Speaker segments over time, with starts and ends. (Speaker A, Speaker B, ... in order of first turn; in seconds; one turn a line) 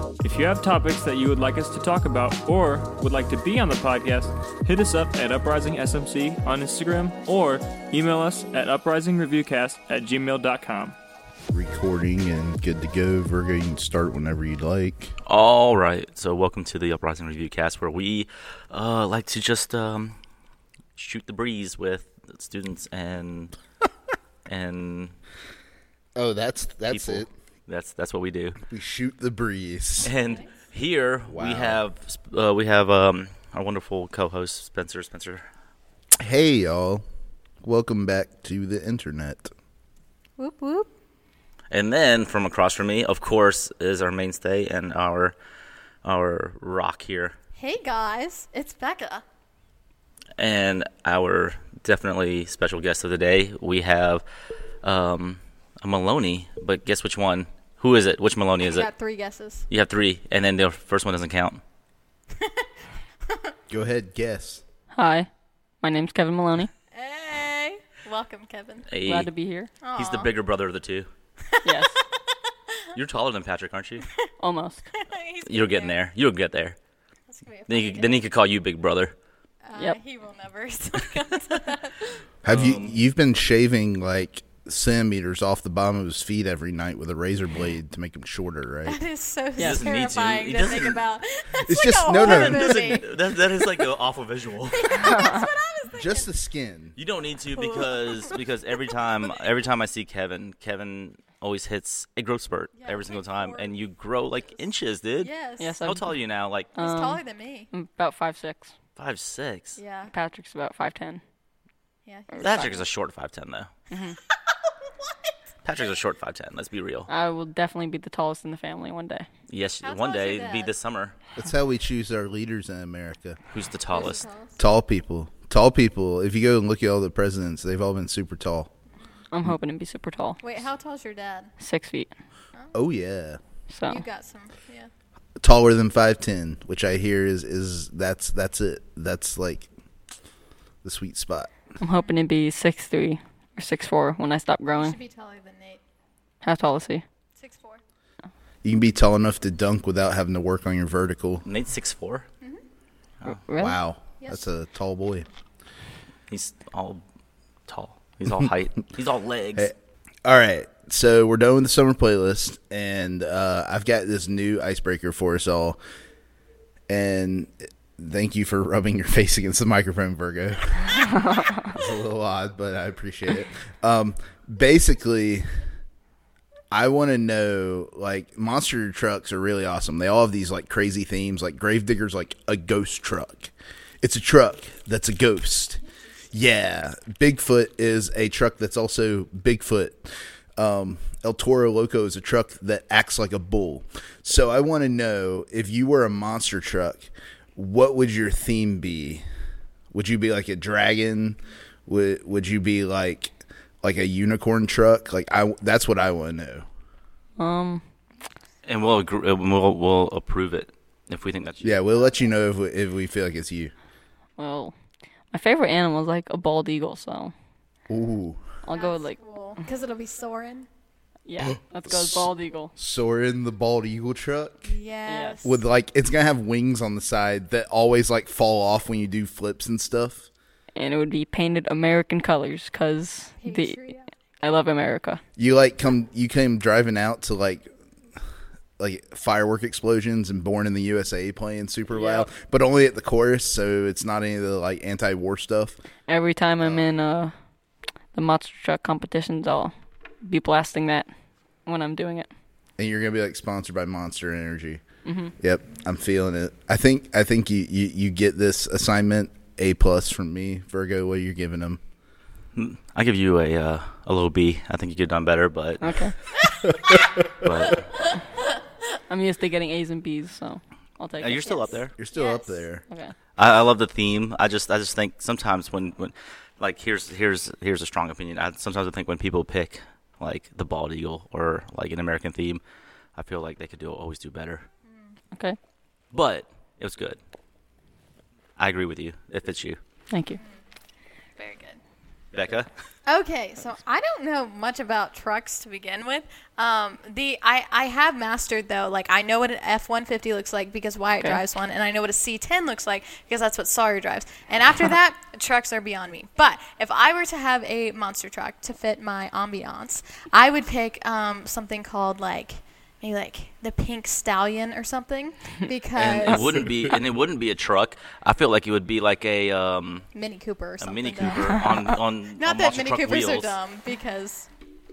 Speaker A: 0.2-11.0
Speaker B: 11.5-15.1
Speaker C: 15.3-20.2
Speaker C: 20.9-23.5
Speaker C: 24.5-25.1
Speaker B: 26.2-27.3
Speaker C: 26.9-28.6
Speaker B: 28.7-30.1
Speaker C: 30.0-35.4
Speaker B: 31.3-31.8
Speaker B: 36.2-37.0
Speaker B: 37.6-39.5
Speaker D: 40.4-40.9
Speaker C: 41.7-45.3
Speaker C: 46.0-47.4
Speaker D: 47.6-49.2
Speaker C: 50.4-54.2
Speaker C: 54.8-58.9
Speaker D: 58.6-59.7
Speaker C: 59.7-61.6
Speaker B: 63.7-64.6
Speaker E: 64.9-65.3
Speaker E: 65.8-66.7
Speaker D: 66.9-68.9
Speaker C: 68.9-69.3
Speaker E: 69.0-69.7
Speaker D: 69.8-70.3
Speaker C: 70.0-71.1
Speaker D: 71.5-72.0
Speaker E: 71.6-72.0
Speaker C: 72.9-74.1
Speaker E: 74.4-74.8
Speaker D: 75.0-76.0
Speaker C: 75.5-76.8
Speaker D: 77.3-78.3
Speaker C: 77.7-79.1
Speaker D: 79.7-82.2
Speaker B: 82.4-89.0
Speaker C: 82.5-82.9
Speaker D: 88.8-93.2
Speaker E: 89.6-89.9
Speaker C: 89.6-91.0
Speaker B: 91.6-93.0
Speaker C: 92.1-95.3
Speaker D: 94.7-96.3
Speaker B: 95.9-97.0
Speaker C: 97.0-106.7
Speaker D: 97.5-98.4
Speaker D: 102.8-103.7
Speaker D: 105.2-105.8
Speaker E: 105.6-106.1
Speaker D: 106.8-107.7
Speaker E: 106.8-108.7
Speaker C: 109.0-109.8
Speaker D: 109.8-110.1
Speaker E: 110.1-111.2
Speaker D: 112.1-112.8
Speaker E: 112.3-112.7
Speaker C: 112.4-113.7
Speaker E: 113.9-114.2
Speaker C: 115.6-117.1
Speaker E: 117.1-119.3
Speaker C: 119.5-121.1
Speaker D: 119.8-120.7
Speaker B: 121.4-123.4
Speaker C: 123.5-124.3
Speaker D: 123.9-124.6
Speaker B: 124.6-128.7
Speaker E: 129.3-130.4
Speaker D: 130.4-131.5
Speaker E: 131.6-132.1
Speaker B: 132.7-133.4
Speaker E: 133.7-134.0
Speaker D: 133.9-134.9
Speaker B: 135.4-139.7
Speaker B: 140.8-141.5
Speaker E: 141.8-145.0
Speaker D: 144.8-145.8
Speaker E: 146.4-147.0
Speaker D: 147.4-147.8
Speaker B: 148.6-151.4
Speaker C: 151.4-152.3
Speaker E: 153.3-153.8
Speaker B: 153.5-155.3
Speaker C: 156.3-157.0
Speaker C: 157.7-159.7
Speaker B: 160.2-165.8
Speaker B: 166.9-175.5
Speaker B: 176.7-185.8
Speaker B: 186.3-199.2
Speaker B: 199.9-206.7
Speaker E: 207.4-207.8
Speaker C: 208.7-211.8
Speaker B: 211.6-213.7
Speaker E: 214.4-214.8
Speaker E: 215.3-217.3
Speaker B: 217.9-218.4
Speaker E: 218.6-219.2
Speaker D: 218.7-220.7
Speaker E: 221.3-222.7
Speaker B: 221.4-224.7
Speaker D: 224.7-225.6
Speaker E: 225.1-225.4
Speaker B: 225.4-230.3
Speaker E: 230.8-233.8
Speaker D: 233.4-234.1
Speaker E: 234.4-235.2
Speaker B: 235.4-237.7
Speaker B: 238.8-245.8
Speaker E: 241.9-242.3
Speaker E: 246.1-247.3
Speaker B: 246.6-246.8
Speaker E: 248.1-251.1
Speaker E: 251.7-252.3
Speaker B: 252.8-254.8
Speaker E: 255.1-255.3
Speaker B: 255.4-261.8
Speaker C: 262.6-265.9
Speaker E: 265.8-266.1
Speaker B: 266.9-267.7
Speaker C: 267.4-268.0
Speaker E: 269.1-271.7
Speaker C: 271.2-271.9
Speaker D: 271.4-272.6
Speaker B: 272.0-272.8
Speaker E: 272.9-273.1
Speaker C: 273.4-282.6
Speaker C: 283.2-284.6
Speaker D: 284.9-285.2
Speaker E: 285.3-285.6
Speaker C: 286.1-287.2
Speaker C: 288.6-289.8
Speaker E: 290.1-290.4
Speaker D: 291.4-291.8
Speaker C: 292.3-292.7
Speaker D: 293.1-316.7
Speaker C: 316.0-320.1
Speaker D: 320.1-324.5
Speaker C: 320.8-323.6